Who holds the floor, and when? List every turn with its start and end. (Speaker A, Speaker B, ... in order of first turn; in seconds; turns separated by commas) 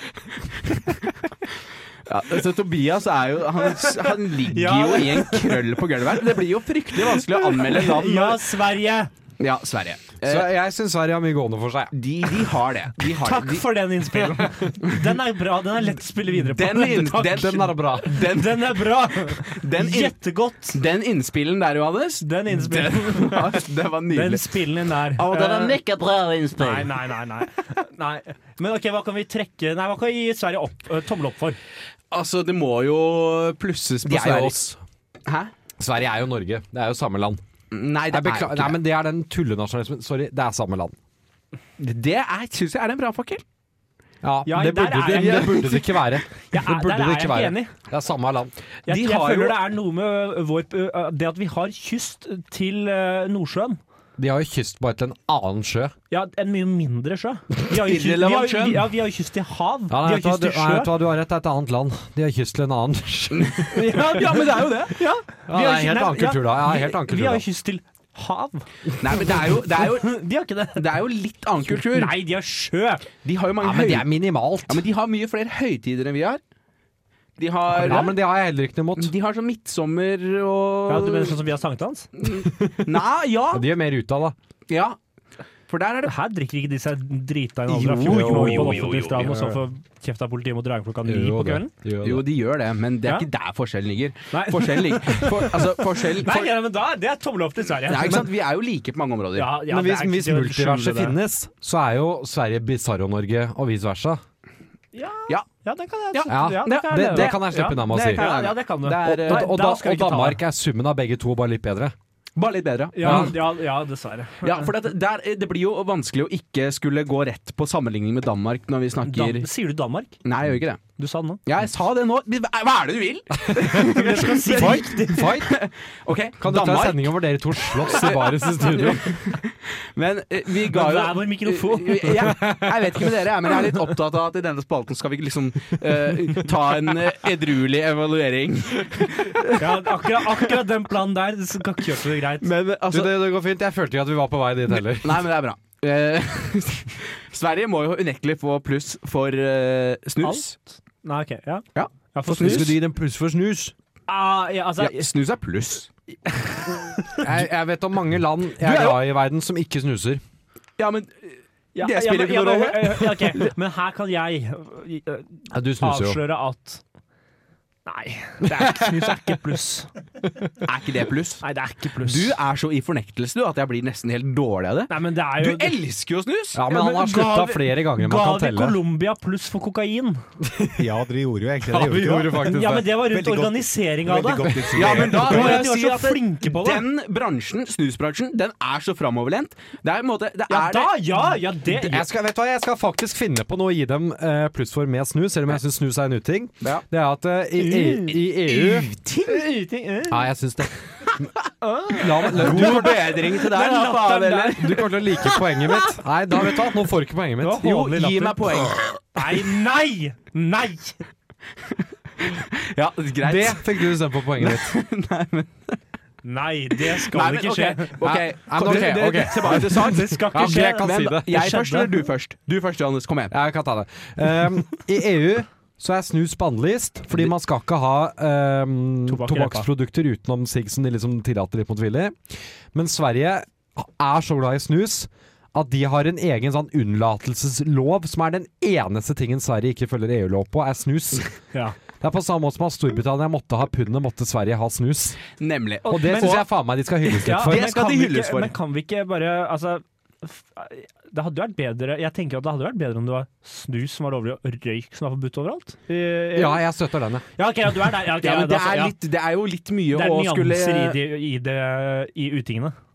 Speaker A: 2.0-8.6, Speaker B: 4.5-5.6, Speaker B: 7.1-9.1, Speaker A: 9.4-10.5, Speaker C: 10.2-11.9, Speaker A: 11.9-13.8, Speaker B: 13.0-20.8, Speaker A: 16.3-20.2, Speaker C: 17.1-18.3, Speaker A: 20.7-24.6, Speaker B: 22.2-25.8, Speaker A: 25.1-26.9, Speaker B: 26.6-31.6, Speaker A: 32.1-34.6, Speaker C: 34.0-34.8, Speaker A: 35.2-35.5, Speaker C: 35.8-37.4, Speaker A: 37.7-38.8, Speaker C: 38.1-41.0, Speaker A: 41.8-43.4, Speaker C: 44.2-48.5, Speaker B: 44.5-45.8, Speaker A: 45.0-46.0, Speaker B: 46.5-47.7, Speaker A: 48.9-49.6, Speaker B: 48.9-53.8, Speaker C: 54.2-55.9, Speaker B: 56.1-60.9, Speaker A: 57.7-58.9, Speaker C: 59.9-64.0, Speaker A: 63.3-65.0, Speaker B: 63.7-68.7, Speaker C: 65.5-67.4, Speaker A: 69.0-72.2, Speaker B: 69.2-70.8, Speaker B: 71.7-73.0, Speaker A: 73.2-74.1, Speaker C: 73.6-74.8, Speaker A: 74.7-76.4, Speaker A: 77.4-78.1, Speaker C: 77.7-79.1, Speaker A: 79.0-81.4, Speaker B: 80.9-82.1, Speaker A: 82.2-83.7, Speaker C: 82.3-82.9, Speaker C: 83.5-84.3, Speaker A: 84.7-85.0, Speaker A: 85.7-86.1, Speaker B: 86.0-91.7, Speaker A: 87.7-89.5, Speaker C: 87.8-89.6, Speaker C: 91.0-92.2, Speaker A: 92.0-96.5, Speaker B: 94.3-98.2, Speaker A: 97.9-99.6, Speaker B: 99.3-101.2, Speaker C: 99.6-104.2, Speaker B: 104.9-110.4, Speaker A: 106.1-109.6, Speaker C: 106.3-108.2, Speaker C: 109.0-111.9, Speaker A: 112.3-113.4, Speaker B: 112.9-114.7, Speaker C: 113.0-113.4, Speaker A: 114.4-119.5, Speaker B: 119.0-120.1, Speaker A: 120.2-120.8, Speaker B: 121.0-121.4, Speaker A: 121.5-127.2, Speaker C: 123.4-125.6, Speaker B: 123.9-125.3, Speaker C: 126.4-129.4, Speaker A: 127.7-140.5, Speaker B: 130.7-132.3, Speaker C: 132.3-133.0, Speaker B: 139.6-142.5, Speaker A: 142.4-143.2, Speaker C: 142.9-145.2, Speaker A: 144.7-150.5, Speaker B: 151.0-152.7, Speaker A: 151.7-152.8, Speaker C: 152.3-153.7, Speaker B: 154.1-155.1, Speaker A: 154.8-155.9, Speaker B: 156.4-157.2, Speaker C: 157.2-160.2, Speaker A: 158.6-159.0, Speaker A: 160.8-163.3, Speaker B: 161.8-166.8, Speaker C: 165.5-166.2, Speaker B: 167.8-169.9, Speaker C: 168.5-168.9, Speaker A: 170.6-171.4, Speaker B: 171.4-172.3, Speaker A: 172.0-176.6, Speaker B: 174.9-175.8, Speaker C: 176.5-178.8, Speaker B: 176.7-180.2, Speaker C: 180.4-180.9, Speaker D: 180.8-185.6, Speaker C: 181.6-183.0, Speaker B: 182.3-186.8, Speaker C: 184.5-185.2, Speaker A: 184.7-191.0, Speaker B: 190.5-192.1, Speaker C: 191.6-198.9, Speaker B: 197.6-200.2, Speaker C: 200.1-201.3, Speaker B: 201.6-204.7, Speaker C: 201.9-203.2, Speaker A: 202.3-205.1, Speaker C: 204.5-207.8, Speaker B: 207.4-208.5, Speaker A: 207.6-209.4, Speaker B: 209.1-211.0, Speaker A: 212.2-215.8, Speaker C: 213.2-214.7, Speaker B: 216.2-217.9, Speaker A: 216.9-223.3, Speaker C: 218.0-221.4, Speaker B: 219.6-222.0, Speaker C: 223.3-232.2, Speaker B: 229.1-229.7, Speaker C: 232.7-241.3, Speaker C: 242.0-245.2, Speaker A: 245.4-246.5, Speaker C: 245.9-247.7, Speaker B: 245.9-246.4, Speaker B: 247.2-256.6, Speaker A: 247.3-248.5, Speaker C: 256.3-257.2, Speaker B: 257.4-258.9, Speaker A: 258.1-261.0, Speaker B: 259.9-262.8